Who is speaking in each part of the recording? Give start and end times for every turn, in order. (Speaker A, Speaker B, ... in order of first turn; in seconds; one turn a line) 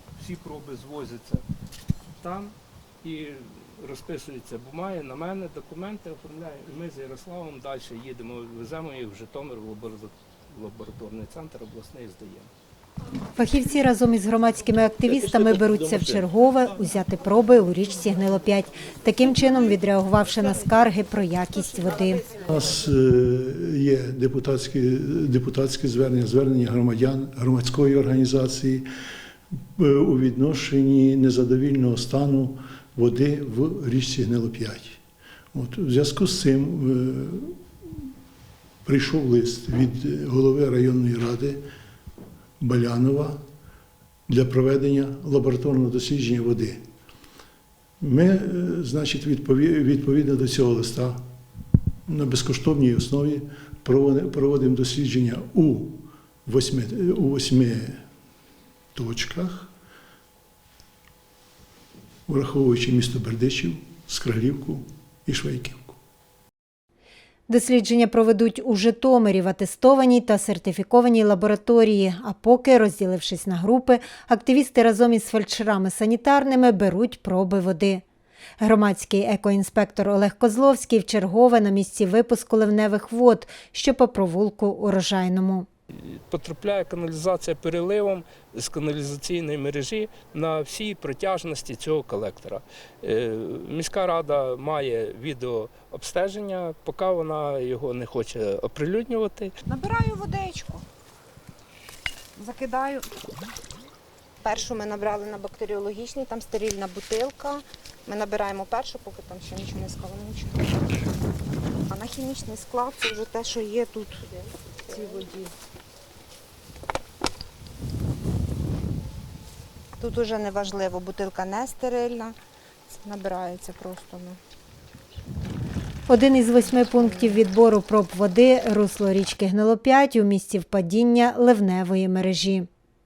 Speaker A: 0.2-1.4
Speaker A: 2.2-12.5
Speaker B: 13.3-22.4
Speaker C: 22.4-28.9
Speaker C: 29.8-35.0
Speaker C: 35.5-37.6
Speaker C: 38.8-41.6
Speaker C: 42.6-43.4
Speaker C: 44.3-46.8
Speaker C: 48.0-51.2
Speaker C: 52.1-58.0
Speaker C: 58.9-59.7
Speaker C: 62.3-66.0
Speaker B: 67.5-78.0
Speaker B: 78.6-85.7
Speaker A: 85.9-99.5
Speaker D: 99.7-100.8
Speaker D: 102.3-103.2
Speaker D: 104.4-110.7
Speaker D: 111.9-115.3
Speaker D: 120.0-122.3
Speaker D: 122.9-124.4
Speaker B: 126.1-132.7
Speaker D: 127.0-127.3